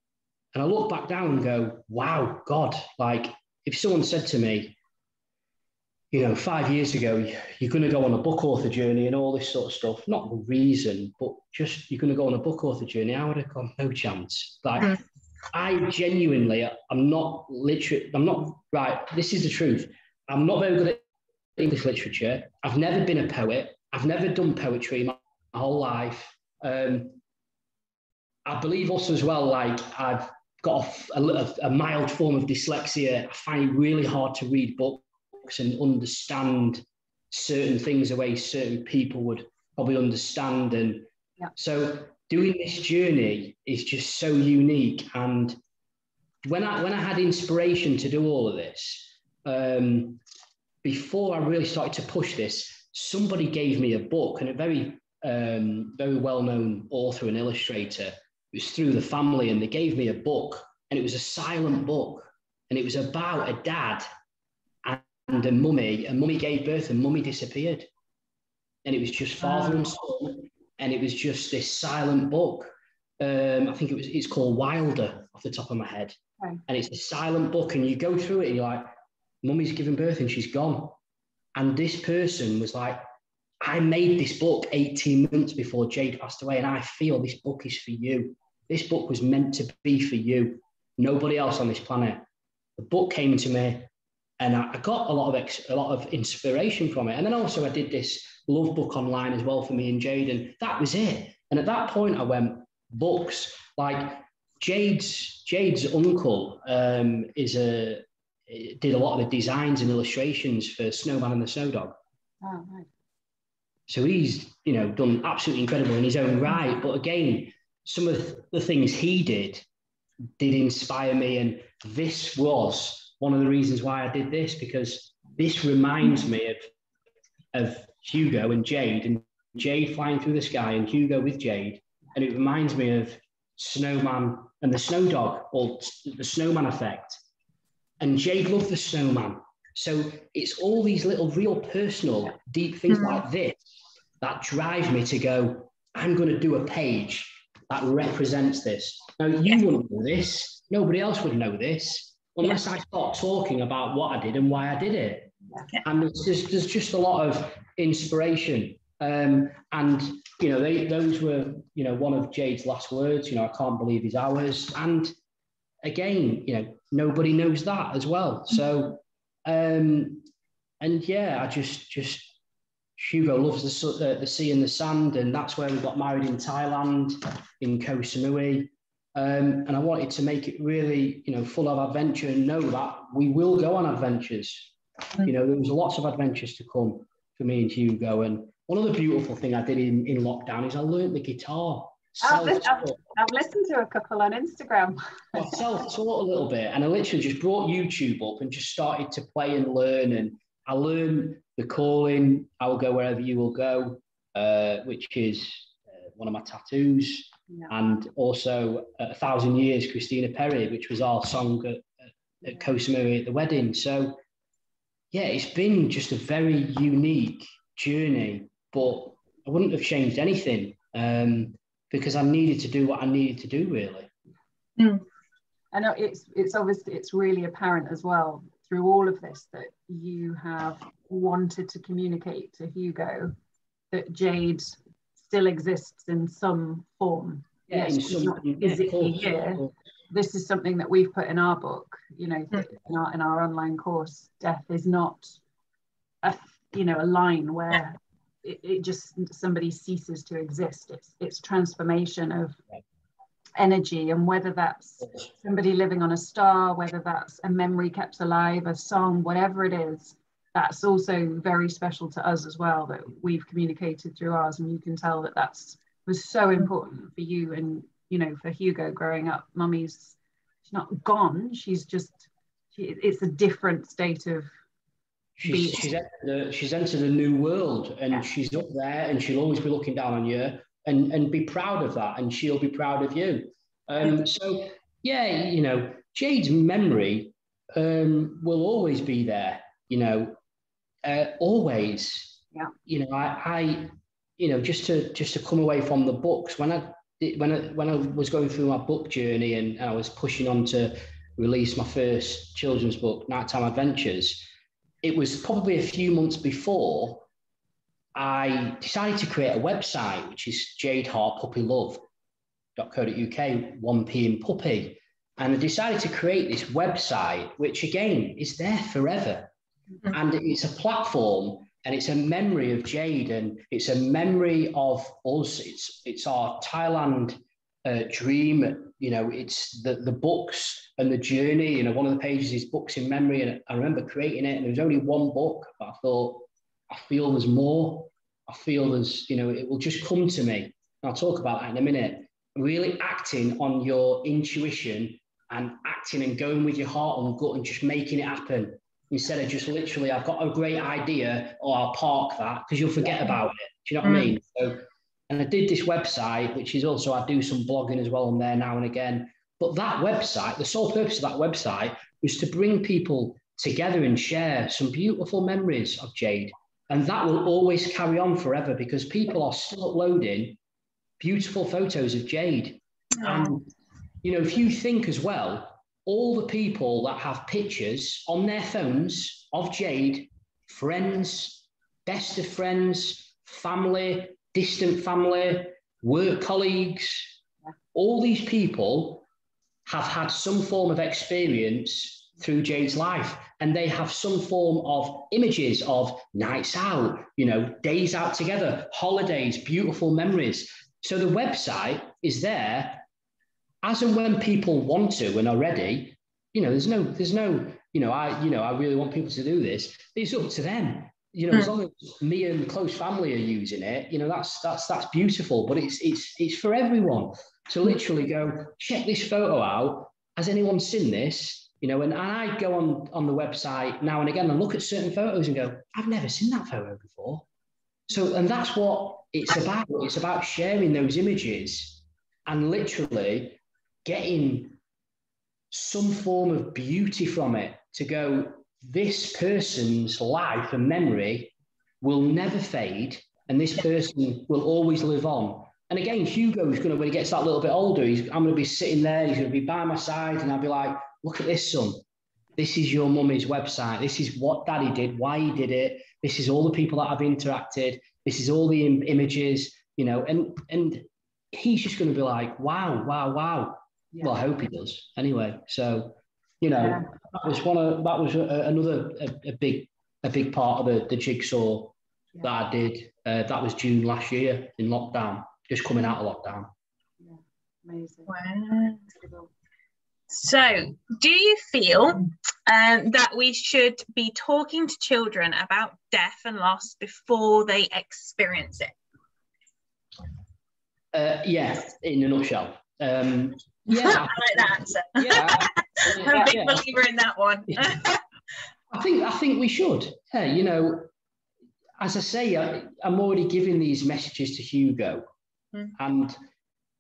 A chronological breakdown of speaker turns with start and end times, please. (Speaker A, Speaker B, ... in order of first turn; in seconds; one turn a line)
Speaker A: 0.5-4.8
Speaker A: 6.1-15.0
Speaker A: 15.5-21.0
Speaker A: 21.6-27.2
Speaker A: 28.4-45.6
Speaker A: 46.4-50.2
Speaker A: 50.8-64.1
Speaker A: 64.8-67.9
Speaker A: 68.8-76.2
Speaker B: 69.5-69.8
Speaker A: 76.7-78.8
Speaker A: 79.4-81.0
Speaker A: 81.5-83.0
Speaker A: 83.6-92.2
Speaker A: 92.8-112.0
Speaker B: 112.4-112.9
Speaker A: 113.9-119.6
Speaker A: 120.4-126.6
Speaker A: 127.5-137.2
Speaker A: 138.0-143.6
Speaker C: 142.9-143.2
Speaker A: 144.2-155.3
Speaker A: 155.8-165.1
Speaker A: 165.8-170.2
Speaker A: 170.8-172.3
Speaker A: 173.0-184.7
Speaker A: 185.2-193.0
Speaker B: 192.2-195.5
Speaker A: 195.3-214.2
Speaker A: 215.1-224.1
Speaker C: 224.8-225.0
Speaker B: 225.7-233.3
Speaker B: 233.9-245.4
Speaker A: 237.7-239.7
Speaker B: 246.2-252.6
Speaker B: 253.6-274.5
Speaker A: 275.4-290.4
Speaker B: 275.4-275.9
Speaker A: 291.0-304.5
Speaker A: 305.0-307.2
Speaker A: 308.1-312.0
Speaker A: 312.8-319.5
Speaker A: 320.1-370.6
Speaker C: 354.0-354.3
Speaker A: 371.2-373.7
Speaker C: 373.2-373.5
Speaker A: 374.2-387.3
Speaker A: 387.9-389.2
Speaker A: 389.9-403.0
Speaker A: 403.8-427.4
Speaker A: 428.1-434.8
Speaker A: 435.7-452.0
Speaker A: 452.6-476.7
Speaker B: 466.8-467.1
Speaker B: 477.2-478.3
Speaker C: 478.3-479.0
Speaker B: 479.2-479.5
Speaker C: 480.3-488.9
Speaker A: 491.1-494.5
Speaker C: 493.9-498.2
Speaker A: 495.1-496.8
Speaker B: 496.2-496.5
Speaker A: 497.7-498.0
Speaker A: 498.9-501.1
Speaker A: 502.0-505.2
Speaker A: 505.9-506.4